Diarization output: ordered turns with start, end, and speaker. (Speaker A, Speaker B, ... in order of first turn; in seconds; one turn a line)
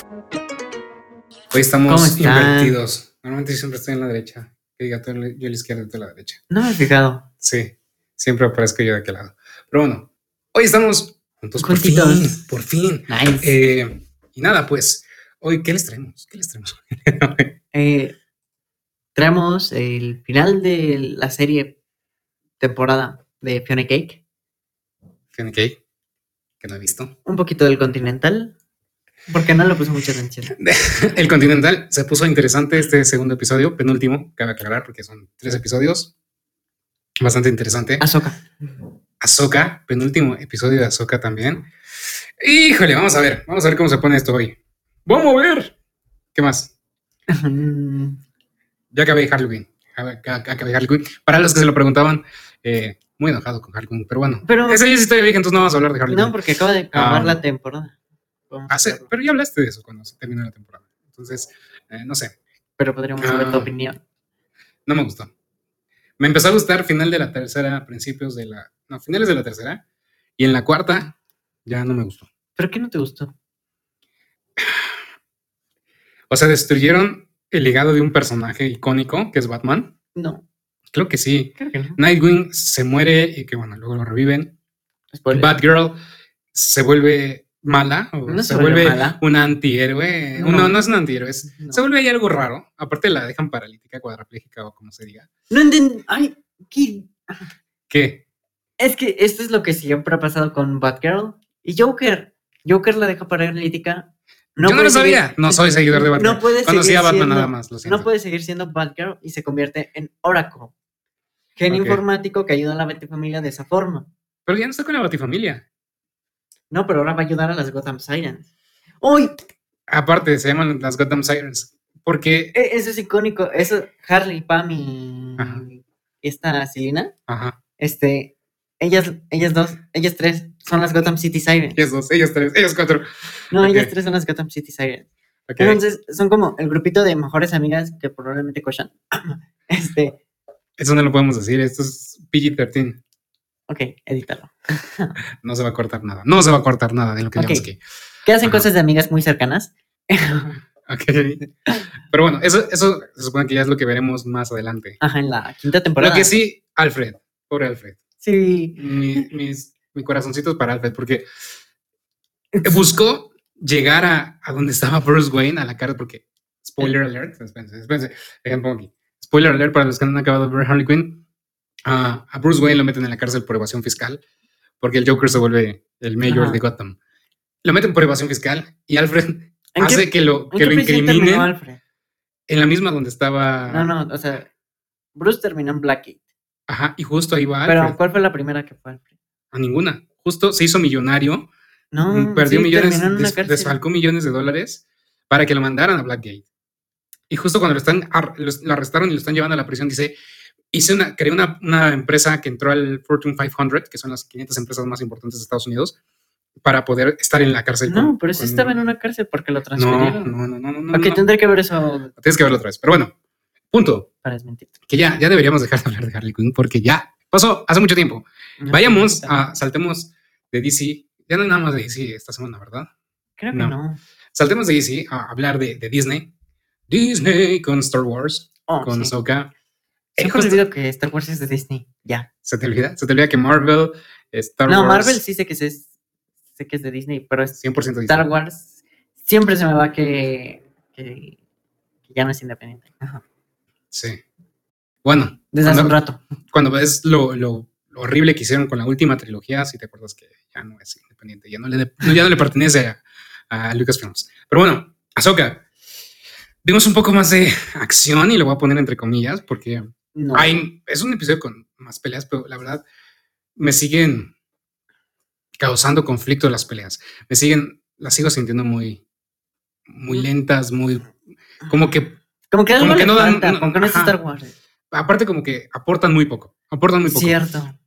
Speaker A: 1.5-6.4
Speaker B: 1.9-2.8
Speaker B: 6.5-7.3
Speaker A: 7.4-17.6
Speaker B: 11.6-12.5
Speaker B: 13.1-13.5
Speaker B: 17.7-18.1
Speaker B: 19.1-21.8
Speaker B: 22.6-24.2
Speaker A: 25.3-25.8
Speaker A: 26.6-27.1
Speaker B: 27.2-28.6
Speaker B: 29.3-30.5
Speaker A: 30.5-36.1
Speaker A: 37.2-38.0
Speaker B: 38.0-38.5
Speaker A: 39.2-41.7
Speaker A: 42.4-45.7
Speaker A: 46.3-46.7
Speaker B: 47.3-48.2
Speaker A: 48.9-56.4
Speaker B: 54.5-54.9
Speaker B: 56.1-58.0
Speaker A: 56.9-57.4
Speaker B: 58.5-59.1
Speaker A: 58.7-62.4
Speaker B: 62.8-64.0
Speaker A: 63.2-63.7
Speaker A: 64.8-65.3
Speaker A: 66.2-69.8
Speaker A: 70.4-71.1
Speaker A: 71.7-72.3
Speaker B: 72.5-73.3
Speaker A: 74.6-74.9
Speaker A: 76.3-79.9
Speaker B: 80.1-80.4
Speaker A: 80.9-84.5
Speaker B: 81.6-82.0
Speaker B: 85.1-85.6
Speaker A: 85.3-86.0
Speaker A: 86.5-95.3
Speaker B: 88.3-89.2
Speaker B: 90.4-90.8
Speaker B: 91.5-91.8
Speaker B: 95.5-97.4
Speaker A: 97.9-98.2
Speaker B: 98.8-110.7
Speaker A: 104.6-108.1
Speaker B: 111.6-114.1
Speaker A: 111.7-112.0
Speaker A: 114.5-115.7
Speaker B: 116.7-118.5
Speaker B: 119.0-119.4
Speaker A: 119.9-122.5
Speaker B: 122.5-127.1
Speaker A: 125.4-125.6
Speaker A: 127.3-127.6
Speaker B: 127.8-131.8
Speaker A: 131.8-133.9
Speaker B: 133.5-140.2
Speaker A: 135.5-135.8
Speaker A: 140.8-143.0
Speaker B: 143.7-145.1
Speaker A: 145.4-147.8
Speaker B: 147.3-147.7
Speaker B: 148.2-150.5
Speaker A: 150.8-151.5
Speaker A: 152.0-155.0
Speaker B: 155.0-156.3
Speaker A: 156.0-158.0
Speaker B: 158.2-159.2
Speaker A: 158.8-161.2
Speaker B: 162.5-162.8
Speaker A: 162.6-171.2
Speaker A: 171.8-174.2
Speaker A: 174.8-177.0
Speaker B: 176.2-176.6
Speaker A: 177.6-181.5
Speaker B: 179.8-181.8
Speaker A: 182.5-183.9
Speaker B: 183.7-184.5
Speaker B: 185.1-186.2
Speaker A: 186.7-188.0
Speaker B: 187.7-189.1
Speaker A: 189.5-191.5
Speaker B: 191.9-193.8
Speaker A: 192.1-196.4
Speaker A: 197.3-200.1
Speaker A: 200.7-205.9
Speaker A: 206.6-208.8
Speaker B: 207.9-210.3
Speaker A: 209.8-211.2
Speaker B: 210.9-212.1
Speaker A: 212.2-213.1
Speaker A: 213.7-214.1
Speaker B: 214.2-214.7
Speaker A: 214.9-222.9
Speaker B: 218.6-219.4
Speaker B: 223.4-224.0
Speaker A: 224.3-226.3
Speaker A: 226.9-229.5
Speaker B: 228.7-229.1
Speaker A: 230.2-230.6
Speaker B: 230.2-232.3
Speaker A: 232.4-235.2
Speaker B: 234.7-235.9
Speaker B: 236.6-237.6
Speaker A: 237.6-238.2
Speaker B: 238.1-238.7
Speaker B: 239.2-241.4
Speaker B: 242.1-243.2
Speaker A: 243.9-244.2
Speaker A: 245.0-246.0
Speaker B: 245.5-246.2
Speaker A: 246.5-255.6
Speaker A: 256.6-262.8
Speaker B: 260.1-260.6
Speaker A: 263.6-264.3
Speaker A: 265.6-269.0
Speaker A: 269.9-271.1
Speaker A: 271.7-272.2
Speaker B: 272.5-274.5
Speaker A: 272.8-274.2
Speaker A: 274.9-277.4
Speaker B: 277.1-277.8